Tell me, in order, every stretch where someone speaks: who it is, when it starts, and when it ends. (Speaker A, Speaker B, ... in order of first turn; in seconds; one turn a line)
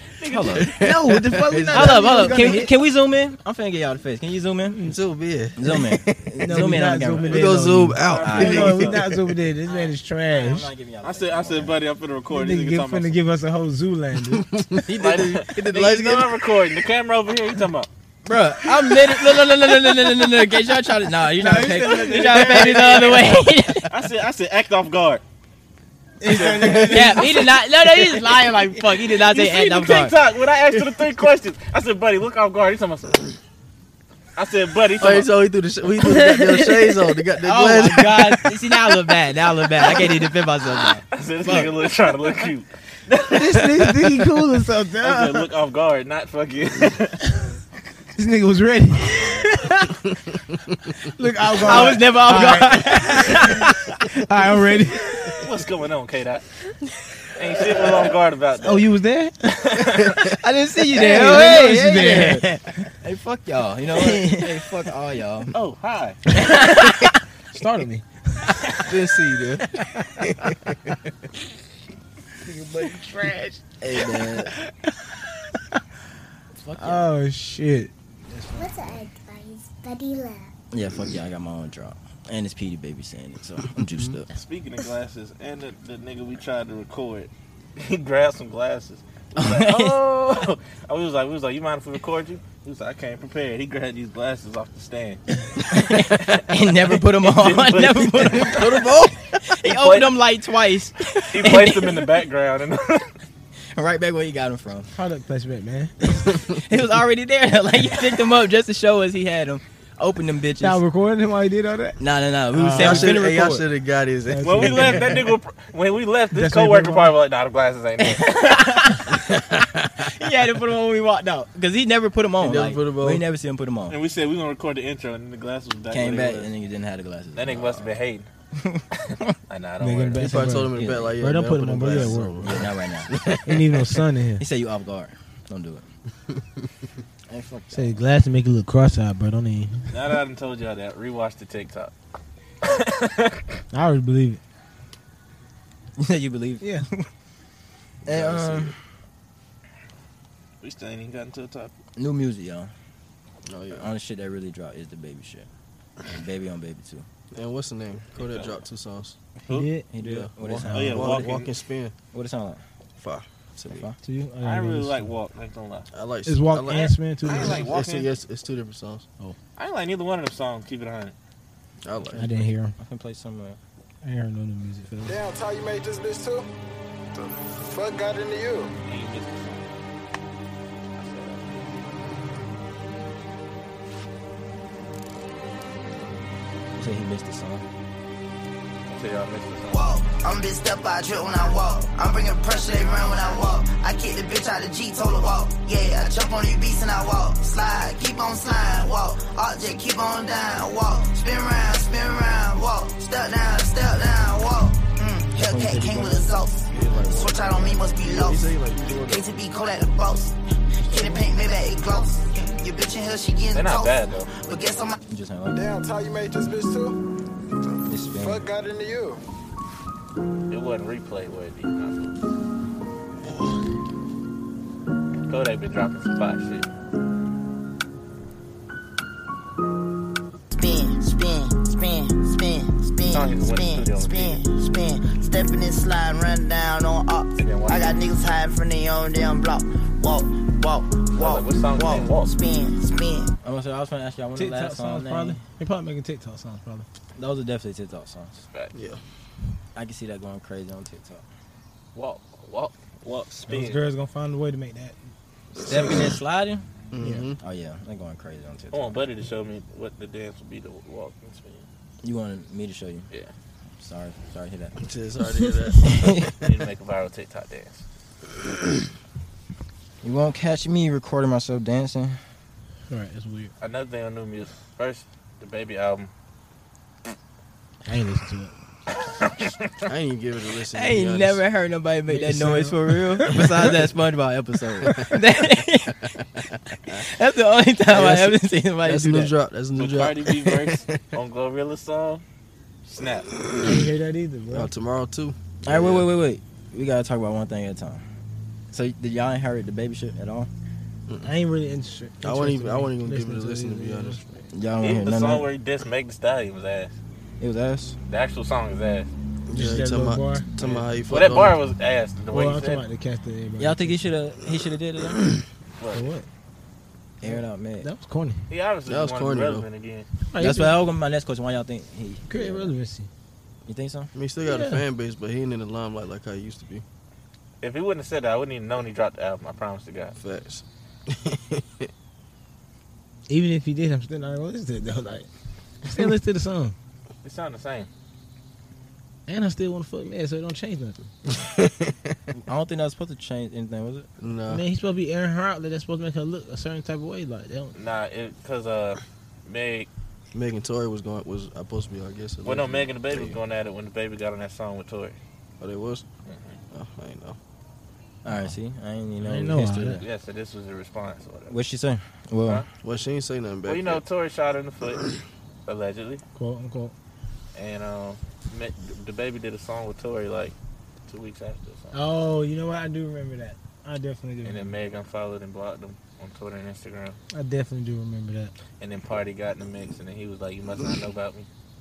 Speaker A: 0.2-0.8
Speaker B: 0.3-0.7
Speaker C: 0.6-2.5
Speaker D: 0.8-2.7
Speaker B: 1.7-4.8
Speaker C: 4.9-6.6
Speaker B: 5.6-8.8
Speaker D: 6.4-10.7
Speaker C: 7.2-9.1
Speaker A: 8.0-9.0
Speaker B: 9.7-11.8
Speaker A: 11.0-13.2
Speaker D: 12.3-14.5
Speaker C: 14.3-16.3
Speaker A: 15.0-17.9
Speaker B: 18.2-23.9
Speaker D: 21.4-23.1
Speaker A: 21.8-25.2
Speaker D: 26.2-27.5
Speaker A: 26.3-27.0
Speaker C: 26.4-26.8
Speaker B: 26.9-30.1
Speaker A: 29.2-33.4
Speaker A: 34.4-35.3
Speaker C: 35.0-38.4
Speaker B: 37.4-41.8
Speaker A: 41.1-43.6
Speaker D: 43.3-45.5
Speaker A: 45.0-47.2
Speaker D: 48.1-50.1
Speaker D: 51.0-55.4
Speaker B: 51.6-53.6
Speaker A: 55.4-56.5
Speaker A: 57.4-58.9
Speaker D: 58.6-62.8
Speaker A: 59.6-60.2
Speaker B: 60.4-65.5
Speaker A: 65.5-66.2
Speaker D: 66.3-68.8
Speaker C: 68.9-69.7
Speaker D: 69.8-70.2
Speaker C: 70.3-70.8
Speaker D: 72.4-75.8
Speaker B: 73.8-74.5
Speaker B: 76.6-77.1
Speaker D: 76.8-78.9
Speaker E: 78.6-80.5
Speaker B: 80.7-84.2
Speaker C: 83.9-84.3
Speaker A: 84.3-95.2
Speaker B: 89.4-90.0
Speaker B: 95.7-98.9
Speaker A: 95.9-98.6
Speaker C: 98.3-99.2
Speaker B: 99.4-102.2
Speaker A: 99.7-100.1
Speaker A: 101.3-103.1
Speaker B: 103.8-104.9
Speaker D: 105.0-106.2
Speaker B: 106.6-110.8
Speaker D: 110.6-112.0
Speaker B: 112.0-113.7
Speaker D: 112.5-113.3
Speaker C: 112.7-115.1
Speaker D: 114.3-115.3
Speaker A: 114.4-119.0
Speaker D: 116.3-117.1
Speaker B: 120.0-124.0
Speaker C: 122.4-123.2
Speaker A: 123.9-126.5
Speaker B: 125.9-127.8
Speaker A: 127.3-128.3
Speaker B: 128.6-129.3
Speaker A: 129.0-130.4
Speaker D: 129.8-132.4
Speaker C: 130.2-133.8
Speaker B: 130.7-131.2
Speaker B: 131.9-133.1
Speaker D: 133.4-134.4
Speaker B: 134.4-135.9
Speaker B: 137.3-138.0
Speaker D: 137.7-139.9
Speaker A: 139.9-141.9
Speaker A: 142.6-143.4
Speaker D: 143.7-144.4
Speaker B: 146.0-146.7
Speaker D: 146.6-146.9
Speaker C: 148.1-148.8
Speaker B: 148.1-148.8
Speaker A: 150.6-151.7
Speaker B: 152.0-152.7
Speaker C: 153.5-153.9
Speaker B: 153.7-155.5
Speaker B: 156.1-157.1
Speaker C: 157.3-159.2
Speaker A: 158.2-158.6
Speaker D: 159.5-159.9
Speaker B: 159.9-161.2
Speaker C: 160.0-161.9
Speaker D: 160.4-161.1
Speaker A: 160.7-161.5
Speaker B: 162.1-162.6
Speaker C: 163.0-163.9
Speaker B: 163.7-164.0
Speaker D: 164.0-165.1
Speaker A: 164.4-165.9
Speaker C: 165.9-169.1
Speaker D: 166.3-167.7
Speaker A: 166.7-168.1
Speaker A: 169.6-171.2
Speaker C: 171.8-172.3
Speaker B: 172.1-173.6
Speaker D: 172.2-172.7
Speaker D: 174.0-175.2
Speaker F: 175.1-176.5
Speaker F: 177.6-178.7
Speaker A: 178.8-179.7
Speaker A: 181.0-181.5
Speaker B: 186.8-187.7
Speaker A: 188.9-189.9
Speaker G: 189.7-208.6
Speaker B: 205.3-206.3
Speaker C: 206.7-209.3
Speaker G: 209.1-215.0
Speaker D: 210.9-211.3
Speaker A: 213.5-214.3
Speaker B: 215.1-215.6
Speaker F: 215.5-217.0
Speaker B: 217.9-218.4
Speaker F: 218.2-219.2
Speaker A: 220.5-222.2
Speaker A: 225.3-226.7
Speaker G: 230.5-243.3
Speaker A: 233.1-234.4
Speaker A: 237.4-238.0
Speaker A: 241.2-242.3
Speaker B: 243.4-245.4
Speaker D: 244.3-246.9
Speaker B: 247.2-248.4
Speaker C: 248.7-249.0
Speaker B: 249.8-251.2
Speaker A: 251.9-253.8
Speaker D: 253.5-255.0
Speaker B: 255.6-256.6
Speaker C: 255.7-255.9
Speaker C: 256.9-257.4
Speaker D: 257.0-257.3
Speaker B: 257.4-259.1
Speaker A: 258.7-261.7
Speaker B: 262.0-263.1
Speaker B: 263.8-264.8
Speaker C: 264.8-266.4
Speaker B: 265.9-266.3
Speaker A: 266.4-267.8
Speaker B: 270.0-272.2
Speaker D: 272.9-273.5
Speaker A: 273.6-276.1
Speaker D: 277.9-278.6
Speaker C: 279.8-281.4
Speaker B: 280.7-286.0
Speaker D: 282.1-283.4
Speaker C: 283.3-283.8
Speaker C: 284.8-287.0
Speaker B: 286.9-289.3
Speaker C: 287.9-291.0
Speaker A: 289.8-292.2
Speaker A: 292.9-293.3
Speaker C: 293.4-293.8
Speaker D: 293.6-294.7
Speaker C: 294.5-296.1
Speaker B: 295.6-298.0
Speaker B: 298.7-300.5
Speaker D: 301.2-304.5
Speaker C: 302.2-304.2
Speaker B: 304.5-305.5
Speaker A: 304.8-306.9
Speaker B: 307.4-308.0
Speaker A: 308.1-309.1
Speaker C: 309.5-311.6
Speaker D: 309.5-310.8
Speaker A: 311.1-312.8
Speaker D: 312.3-314.1
Speaker B: 313.6-315.2
Speaker A: 315.8-316.1
Speaker D: 315.9-316.3
Speaker B: 317.2-317.9
Speaker D: 317.2-318.4
Speaker A: 318.5-320.1
Speaker C: 318.9-319.7
Speaker D: 320.3-320.8
Speaker B: 320.4-322.7
Speaker D: 322.3-323.1
Speaker B: 323.7-324.1
Speaker C: 324.1-326.9
Speaker D: 324.4-324.8
Speaker A: 327.6-330.1
Speaker C: 330.2-331.9
Speaker D: 333.3-335.3
Speaker D: 335.9-336.8
Speaker A: 337.2-337.9
Speaker D: 339.3-341.0
Speaker C: 341.3-342.1
Speaker B: 342.5-344.1
Speaker C: 344.2-344.6
Speaker D: 344.5-347.8
Speaker A: 347.8-349.9
Speaker C: 350.3-353.4
Speaker A: 352.4-355.2
Speaker C: 355.6-356.0
Speaker A: 356.3-356.6
Speaker C: 356.7-357.4
Speaker B: 358.2-360.0
Speaker D: 359.2-360.0
Speaker A: 360.0-361.6
Speaker B: 361.5-362.6
Speaker C: 362.8-364.0
Speaker A: 363.7-365.1
Speaker A: 365.7-366.2
Speaker D: 366.4-366.9
Speaker A: 367.6-370.6
Speaker A: 371.1-372.0
Speaker D: 371.9-374.8
Speaker A: 374.4-377.2
Speaker D: 377.3-378.5
Speaker A: 378.8-381.5